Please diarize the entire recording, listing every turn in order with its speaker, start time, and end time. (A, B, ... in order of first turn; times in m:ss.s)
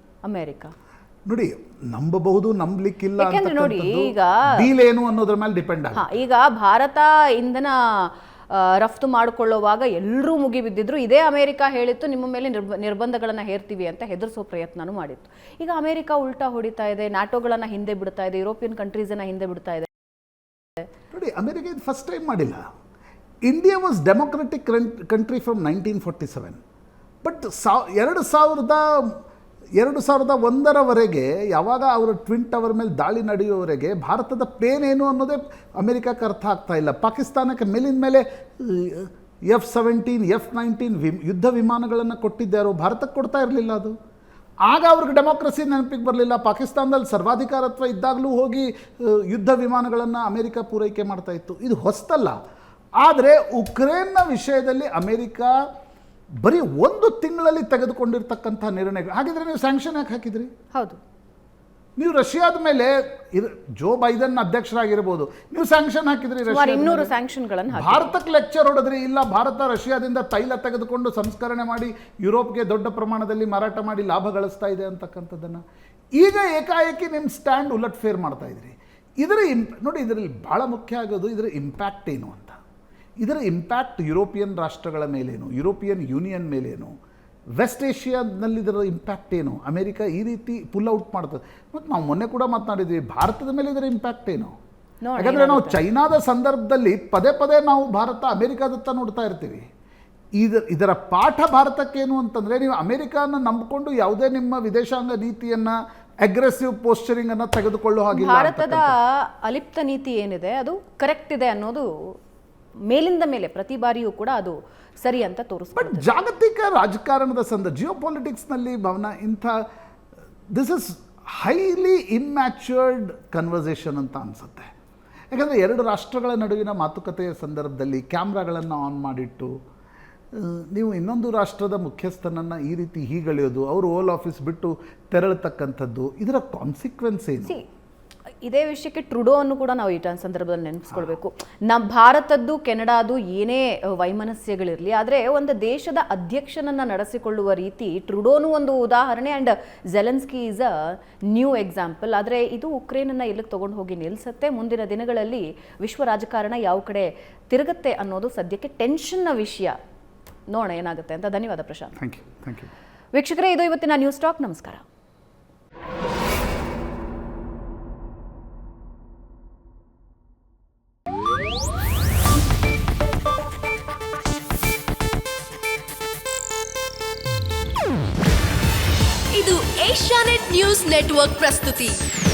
0:00.2-0:00.7 A
0:01.3-0:06.1 B
0:03.2-0:04.6 A
0:06.0-0:19.9 A
0:21.1-0:22.6 B
0:23.4-0:26.6 B
0:27.2-0:29.2 B
0:29.8-0:43.9 B
0:44.7-0:52.4 B
0:53.0-0:55.6 B
0:56.4-1:00.5 B
1:00.7-1:01.0 A
1:02.0-1:07.1 B
1:06.5-1:08.1 A
1:07.7-1:15.6 B
1:16.2-1:22.6 B
1:23.2-1:26.9 B
1:27.6-1:34.5 B
1:35.0-1:35.8 A
1:35.2-1:39.6 B
1:40.4-1:48.9 B
1:48.1-1:52.1 A
1:52.9-1:56.1 A
1:55.8-1:59.6 B
2:00.5-2:04.7 B
2:05.3-2:09.5 B
2:10.3-2:17.6 B
2:18.4-2:39.8 A
2:40.5-2:41.9 A
2:42.0-2:42.7 B
2:43.1-2:44.8 A
2:59.3-3:02.0 C